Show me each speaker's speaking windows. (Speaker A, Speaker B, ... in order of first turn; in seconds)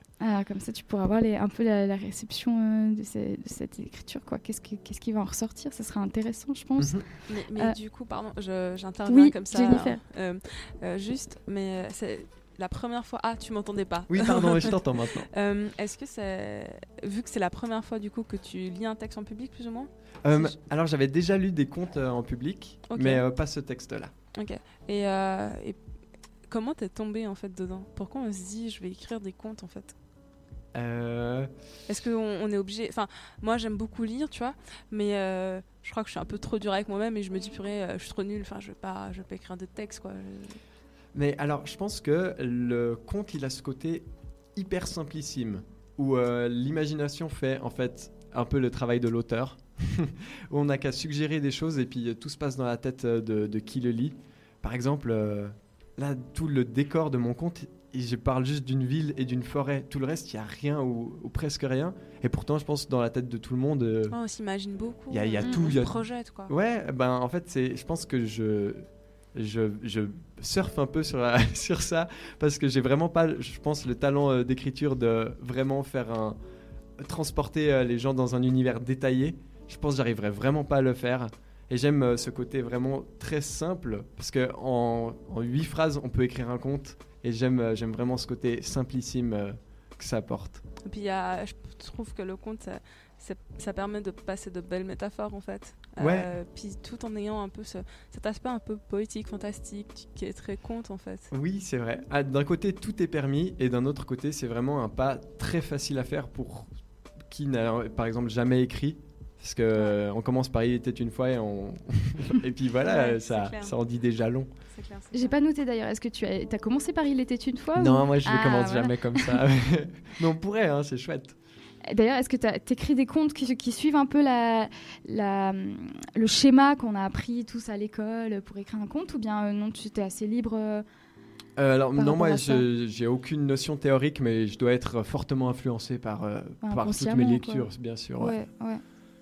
Speaker A: 0.2-7.0, 9.1-10.0, 115.1-119.4, 121.9-130.8, 131.9-132.7, 136.6-138.8
Speaker B: 6.8-7.0, 14.1-15.3, 20.2-24.1, 30.7-31.5, 41.1-64.2, 65.1-76.4, 77.0-90.6, 96.0-96.3, 101.3-106.7, 107.3-114.5, 117.8-121.4, 131.6-138.4
Speaker C: 7.3-20.6, 22.9-23.2, 24.4-25.8, 26.4-29.9, 31.9-40.6, 64.1-66.5, 90.8-101.3, 112.8-113.8, 114.7-115.3